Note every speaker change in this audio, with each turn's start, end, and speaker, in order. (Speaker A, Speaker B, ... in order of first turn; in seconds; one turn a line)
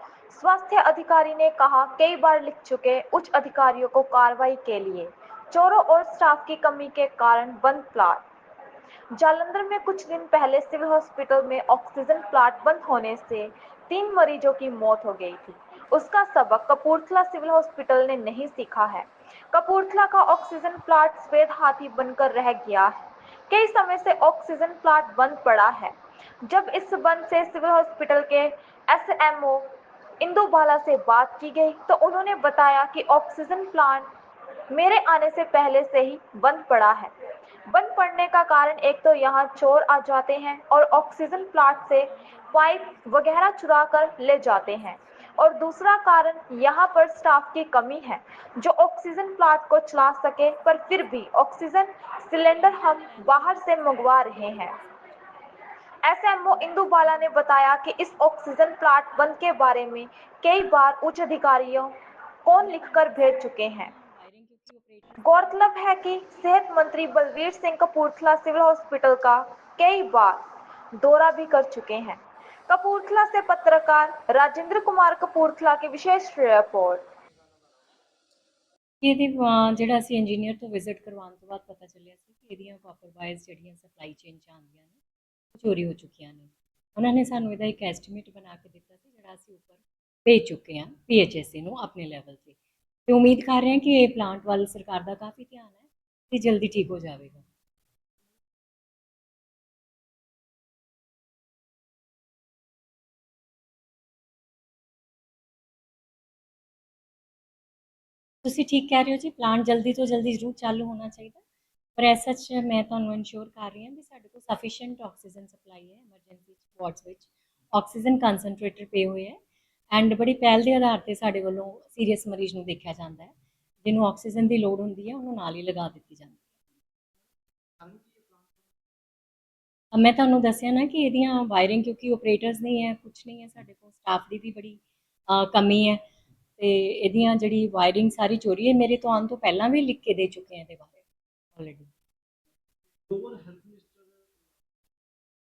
Speaker A: 0.3-8.2
Speaker A: 9.2-34.1
Speaker A: 34.7-37.1
Speaker A: 37.7-54.8
Speaker B: 41.7-45.5
Speaker B: 52.5-55.2
Speaker A: 56.1-61.9
Speaker B: 56.5-57.3
Speaker A: 62.4-63.9
Speaker B: 62.6-65.9
Speaker A: 65.2-70.4
Speaker A: 71.0-77.1
Speaker B: 79.0-85.0
Speaker B: 85.5-97.5
Speaker B: 108.4-111.4
Speaker B: 112.0-119.4
Speaker B: 119.9-126.4
Speaker C: 127.8-128.7
Speaker B: 129.9-136.0
Speaker B: 136.6-141.0
Speaker B: 141.6-141.9
Speaker C: 143.1-144.2